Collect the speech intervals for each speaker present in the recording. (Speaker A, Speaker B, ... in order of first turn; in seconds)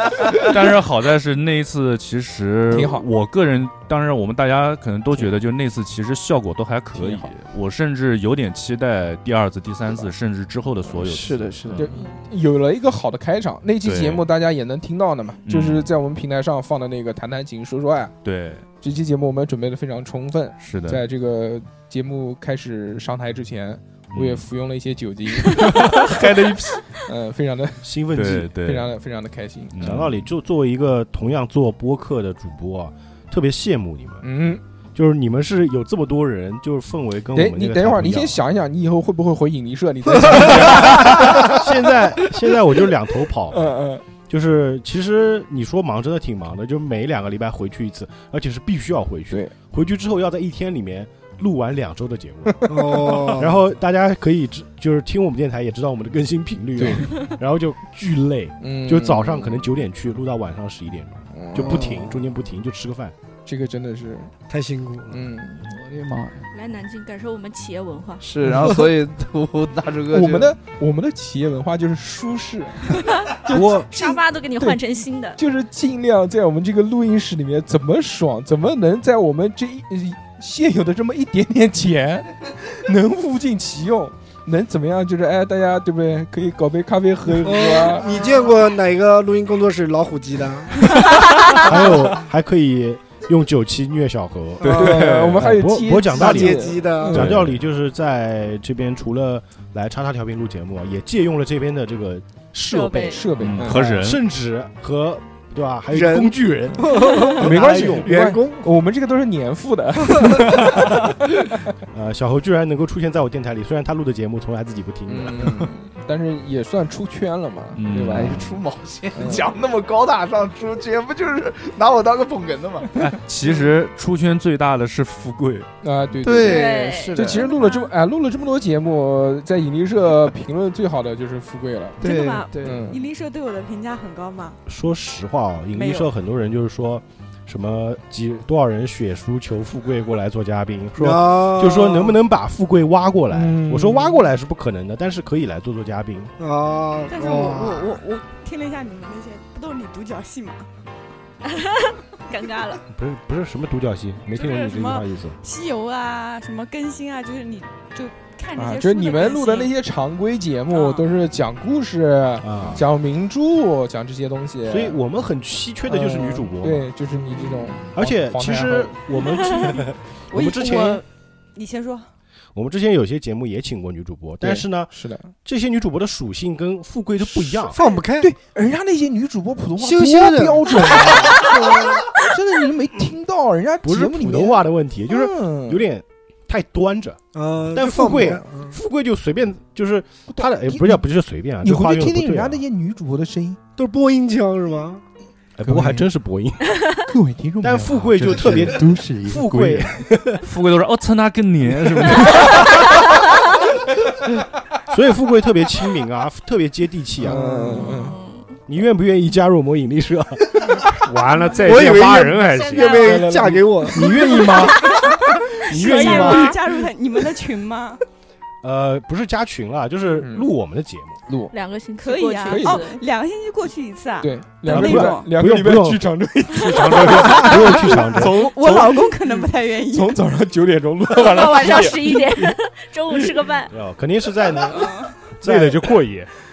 Speaker A: 0.4-12.0, 13.8-14.2, 15.4-15.9, 18.2-18.6, 20.6-21.0, 24.1-24.4, 25.5-26.8, 28.1-28.9, 29.7-30.2, 94.6-95.4, 103.3-104.2, 117.7-118.6, 123.0-125.7, 200.4-202.8
Speaker B: 2.7-3.0, 6.9-7.3, 11.8-18.1, 18.8-29.8, 34.2-34.6, 37.3-41.6, 43.5-44.0, 52.5-53.4, 56.8-57.1, 58.6-59.7, 61.3-62.0, 63.4-64.3, 65.1-65.7, 68.4-68.8, 70.1-74.8, 75.3-88.1, 94.7-97.4, 103.0-104.0, 107.3-111.1, 115.1-118.4, 119.1-119.5, 125.8-132.0, 132.6-133.0, 143.3-144.3, 158.6-165.0, 165.9-168.9, 174.4-175.3, 177.4-177.7, 178.2-185.8, 190.3-191.0, 191.6-193.6, 195.6-196.1, 197.1-200.0, 207.2-208.2, 213.0-214.7, 220.2-220.5, 221.3-221.5, 222.4-222.8, 224.2-232.5
Speaker C: 11.0-12.0, 65.7-66.4, 68.2-70.5, 118.1-122.9, 126.2-127.5, 132.0-132.8
Speaker D: 27.8-28.5, 29.8-34.2, 34.9-38.4, 40.2-43.7, 44.3-63.1, 91.5-108.1, 111.9-115.6, 134.7-146.3, 152.9-155.3, 162.4-162.8, 164.7-166.9, 167.9-171.0, 172.5-177.8, 183.8-187.2, 187.7-192.6, 195.6-196.7, 197.6-200.4, 204.9-208.0, 208.7-210.9, 213.9-214.8, 215.7-216.6, 218.6-221.2, 224.7-226.1, 227.0-228.4, 233.7-235.8
Speaker E: 52.7-53.6, 64.5-65.2, 87.4-91.9, 94.6-95.1, 96.1-97.3, 105.9-108.7, 141.0-142.2, 146.4-148.0, 177.7-178.3, 179.8-181.9, 187.3-188.7, 193.8-195.0, 207.2-207.9, 211.6-214.7
Speaker F: 66.5-68.2, 73.2-75.4, 102.7-103.2, 126.4-127.9, 132.0-132.3, 151.5-152.8, 207.9-208.5, 212.4-213.2, 214.2-216.6, 221.5-223.0, 231.2-233.7
Speaker G: 132.1-134.6, 135.7-136.1, 147.1-150.7, 154.3-159.7, 170.3-172.1, 215.7-218.0, 222.0-225.3, 227.5-230.2, 234.7-235.1
Speaker H: 211.0-213.3, 226.6-227.5, 235.4-236.3